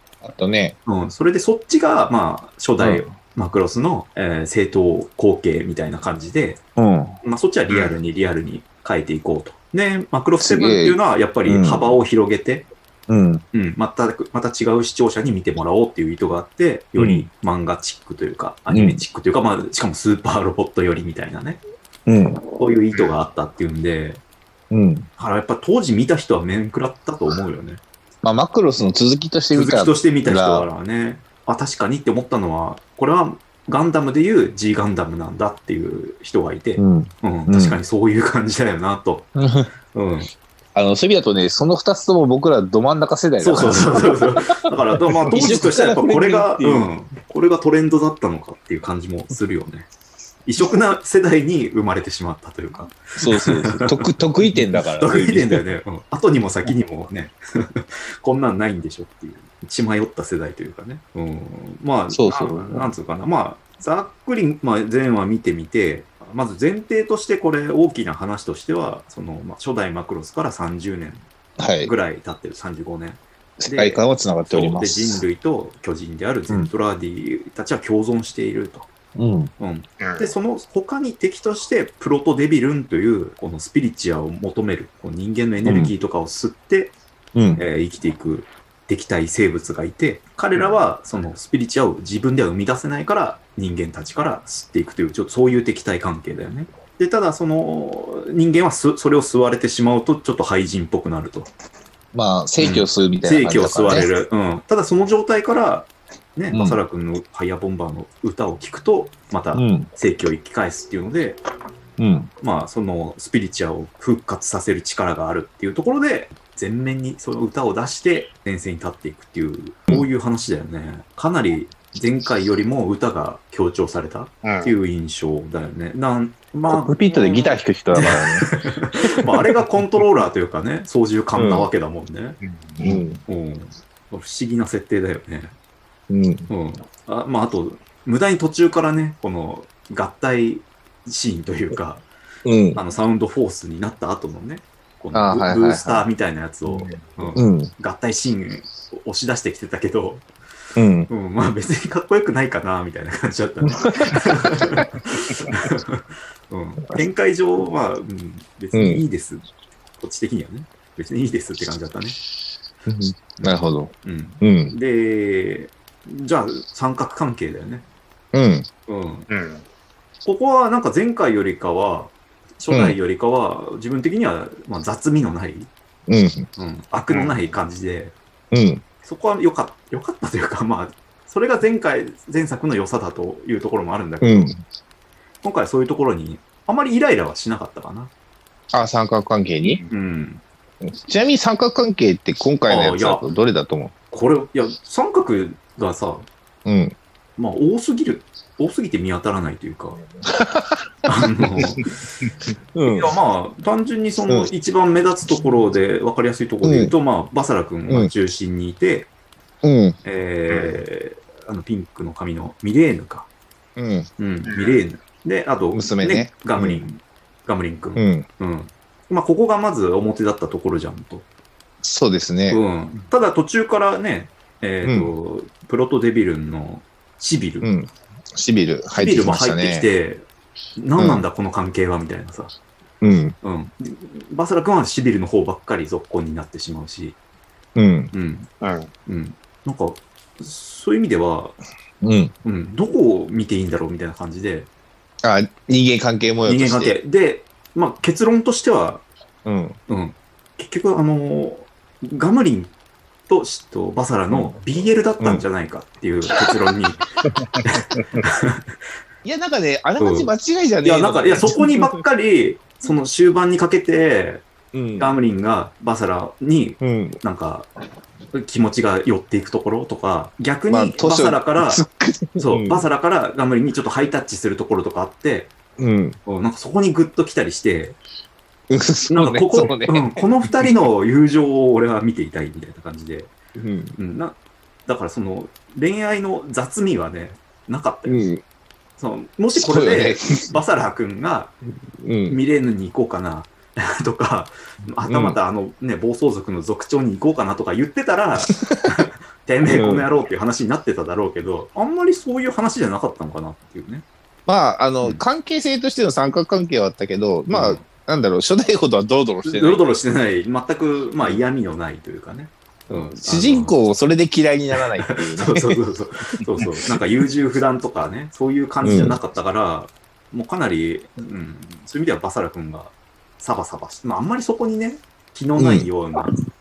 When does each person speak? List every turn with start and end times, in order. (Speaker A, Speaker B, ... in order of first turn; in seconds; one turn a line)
Speaker A: 0.2-0.8
Speaker B: 0.9-6.6
Speaker A: 2.8-3.1
Speaker A: 6.8-7.2
Speaker B: 7.2-12.7
Speaker A: 10.4-12.0
Speaker A: 13.1-13.4
Speaker B: 13.5-21.6
Speaker A: 17.0-17.3
Speaker A: 18.7-19.0
Speaker A: 22.1-22.5
Speaker B: 22.6-24.2
Speaker A: 24.7-25.1
Speaker B: 25.2-27.8
Speaker A: 28.2-30.7
Speaker B: 29.5-39.3
Speaker A: 36.8-37.8
Speaker A: 39.4-39.7
Speaker B: 39.9-40.3
Speaker A: 40.7-44.2
Speaker B: 43.4-49.9
Speaker A: 45.2-46.9
Speaker B: 50.4-71.2
Speaker A: 53.2-55.6
Speaker A: 62.1-62.9
Speaker A: 71.6-71.9
Speaker B: 71.8-78.9
Speaker A: 73.6-75.2
Speaker A: 79.2-79.5
Speaker B: 79.6-86.9
Speaker C: 80.0-80.3
Speaker A: 85.7-85.9
Speaker A: 87.3-87.6
Speaker B: 87.5-101.5
Speaker A: 102.1-104.2
Speaker B: 102.6-111.4
Speaker A: 106.5-106.8
Speaker A: 109.5-109.9
Speaker A: 112.0-112.3
Speaker B: 112.4-127.4
Speaker C: 124.4-124.7
Speaker A: 126.7-128.5
Speaker B: 127.9-132.4
Speaker A: 131.3-131.7
Speaker C: 132.4-133.0
Speaker A: 132.8-133.2
Speaker B: 133.2-135.6
Speaker A: 136.1-136.5
Speaker B: 136.5-142.1
Speaker A: 142.4-142.8
Speaker B: 142.8-150.2
Speaker A: 145.1-146.1
Speaker C: 147.0-147.3
Speaker A: 147.4-147.7
Speaker A: 150.8-151.1
Speaker B: 151.1-159.4
Speaker A: 154.1-154.8
Speaker A: 158.7-159.0
Speaker B: 160.0-162.2
Speaker A: 162.9-164.8
Speaker B: 163.4-167.9
Speaker A: 168.3-168.7
Speaker B: 168.9-169.3
Speaker C: 169.3-169.7
Speaker B: 170.2-175.7
Speaker A: 172.7-173.0
Speaker A: 176.1-176.5
Speaker B: 176.6-178.1
Speaker A: 178.5-178.8
Speaker B: 179.0-184.5
Speaker A: 184.2-184.6
Speaker B: 185.4-188.1
Speaker A: 188.7-189.8
Speaker B: 189.9-190.4
Speaker A: 190.8-193.9
Speaker B: 192.7-193.2
Speaker B: 194.1-196.3
Speaker A: 196.7-197.0
Speaker B: 197.4-200.0
Speaker A: 200.2-200.8
Speaker B: 201.1-201.9
Speaker A: 202.8-203.1
Speaker B: 202.9-209.1
Speaker A: 206.6-206.9
Speaker A: 209.6-210.0
Speaker B: 210.0-213.3
Speaker A: 213.8-214.1
Speaker B: 214.2-221.3
Speaker C: 214.5-214.8
Speaker A: 215.8-216.8
Speaker A: 217.9-218.3
Speaker A: 221.8-222.6
Speaker B: 222.5-227.7
Speaker A: 224.8-225.1
Speaker A: 227.6-229.9
Speaker B: 228.9-230.2
Speaker B: 230.8-232.5
Speaker A: 231.0-231.2
Speaker A: 233.0-233.4
Speaker B: 233.4-237.2
Speaker A: 237.8-238.1
Speaker B: 238.1-238.5
Speaker C: 238.6-238.9
Speaker B: 239.1-241.6
Speaker A: 242.0-242.3
Speaker B: 242.4-244.7
Speaker A: 245.2-246.9
Speaker B: 246.4-249.1
Speaker A: 249.4-249.8
Speaker B: 249.9-252.7
Speaker B: 253.3-257.1
Speaker C: 257.4-258.1
Speaker B: 257.6-258.6
Speaker A: 259.2-262.0
Speaker B: 260.0-260.3
Speaker B: 260.8-267.7
Speaker A: 264.7-265.1
Speaker A: 266.8-267.2
Speaker B: 268.3-271.8
Speaker A: 270.7-272.8
Speaker B: 272.4-275.5
Speaker A: 275.8-276.2
Speaker B: 276.3-278.0
Speaker A: 278.7-280.8
Speaker B: 279.1-283.3
Speaker A: 283.6-284.0
Speaker B: 284.0-288.2
Speaker A: 288.1-288.4
Speaker B: 289.0-291.6
Speaker A: 289.6-290.6
Speaker A: 292.0-292.4
Speaker B: 292.3-304.1
Speaker A: 295.1-295.4
Speaker A: 298.5-298.8
Speaker A: 299.7-300.1
Speaker A: 304.5-309.8
Speaker B: 307.5-307.8
Speaker B: 309.4-313.7
Speaker A: 312.9-315.8
Speaker B: 315.1-326.3
Speaker A: 318.8-319.2
Speaker A: 325.6-325.9